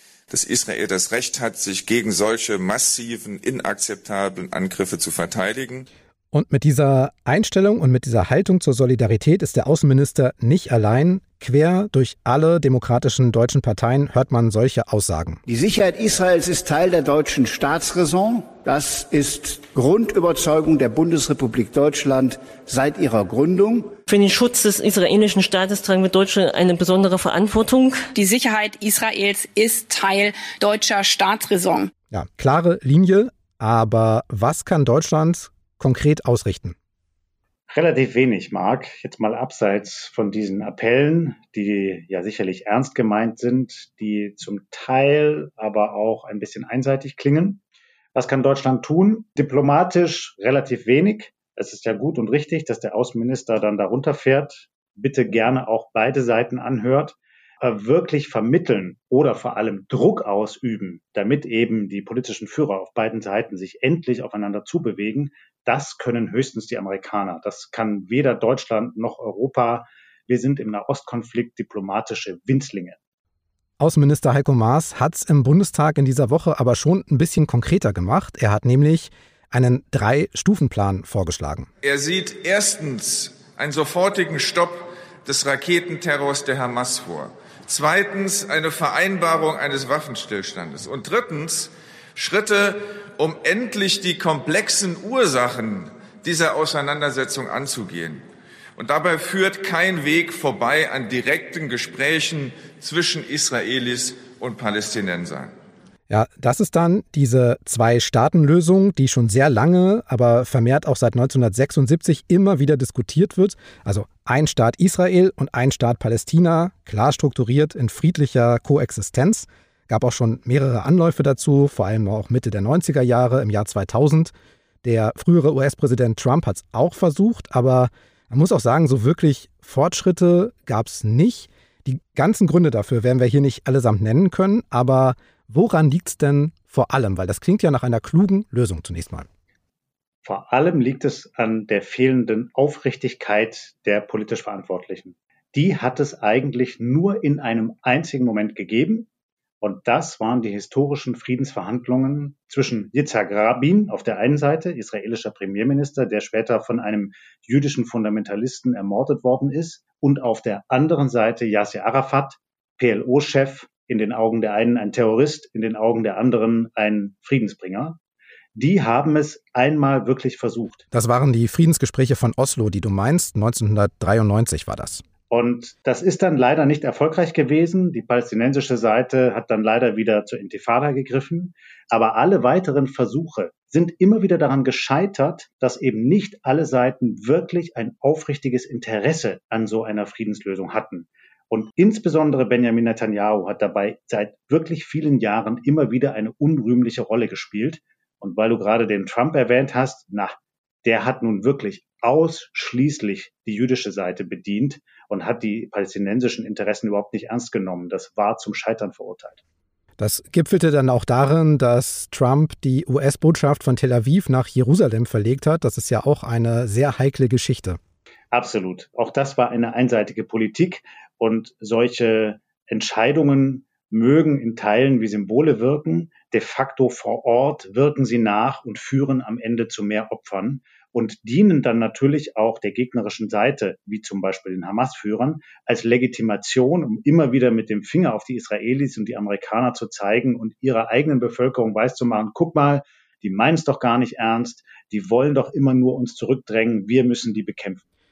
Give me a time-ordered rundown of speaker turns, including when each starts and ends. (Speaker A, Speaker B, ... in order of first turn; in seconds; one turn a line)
Speaker A: 0.3-5.9
Speaker B: 6.3-15.4
Speaker C: 15.5-24.0
Speaker D: 24.1-28.1
Speaker E: 28.1-31.9
Speaker B: 32.1-36.8
Speaker F: 37.7-47.6
Speaker F: 48.1-73.0
Speaker B: 73.8-81.7
Speaker A: 81.8-98.2
Speaker A: 98.8-105.5
Speaker B: 106.1-124.3
Speaker B: 124.8-139.3
Speaker F: 140.2-149.1
Speaker F: 149.6-168.0
Speaker F: 168.6-170.8
Speaker B: 170.9-175.0
Speaker F: 175.3-209.4
Speaker B: 210.0-217.8
Speaker F: 218.3-247.8